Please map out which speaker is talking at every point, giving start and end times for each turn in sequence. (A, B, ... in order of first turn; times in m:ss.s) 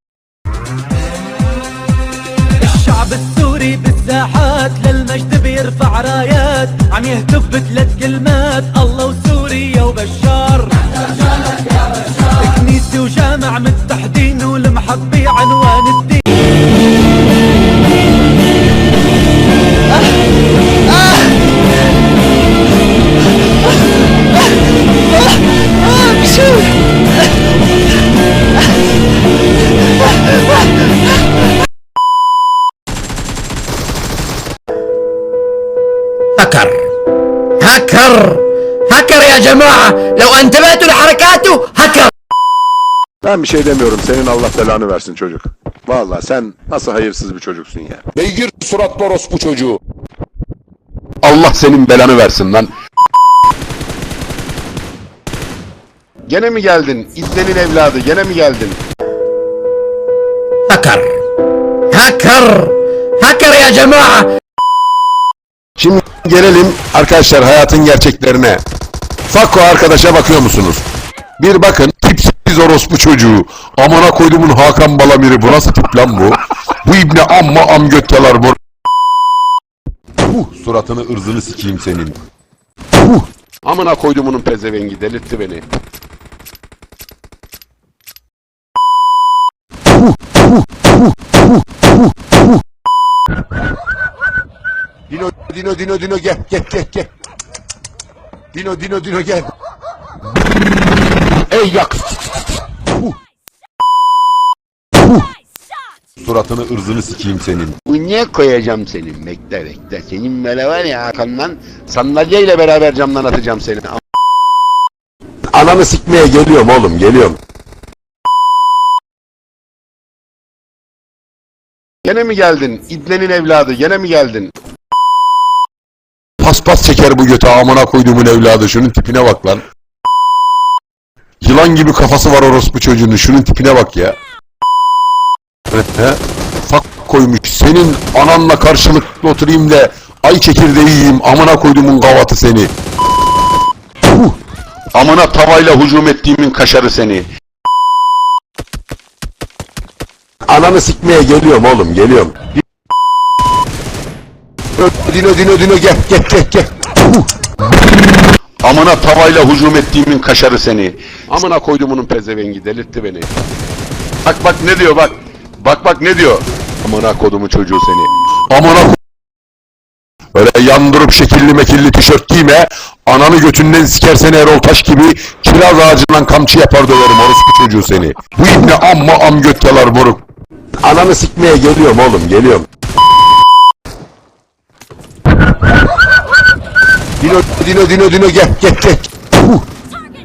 0:02.6-0:11.0 A
0:12.2-0:16.4 A
0:36.4-0:36.9 B
0:37.6-0:42.1 B
0:43.2-0:48.0 C
0:48.2-0:49.8 D
0:51.2-0:52.7 C
0:56.3-0:58.8 C
1:00.7-1:01.2 B
1:01.9-1:04.4 B
1:05.8-1:06.3 C
1:06.1-1:07.7 D
1:07.5-1:08.6 C
1:09.3-1:10.8 D
1:11.4-1:18.6 D
1:20.2-1:22.2 D
1:23.6-1:25.6 C
1:35.1-1:37.1 D
1:38.5-1:39.5 D
1:41.5-1:42.2 D
1:46.2-1:47.8 D
1:47.9-1:54.0 C
1:55.5-1:57.4 D
2:02.0-2:04.5 C
2:06.4-2:09.6 D
2:11.4-2:14.2 D
2:15.7-2:22.7 D
2:24.9-2:27.3 C
2:30.5-2:32.4 D
2:34.8-2:36.7 D
2:38.6-2:43.3 C
2:44.2-2:48.1 C
2:48.5-2:49.0 D
2:50.3-3:00.2 D
3:00.8-3:02.7 D
3:07.2-3:09.6 D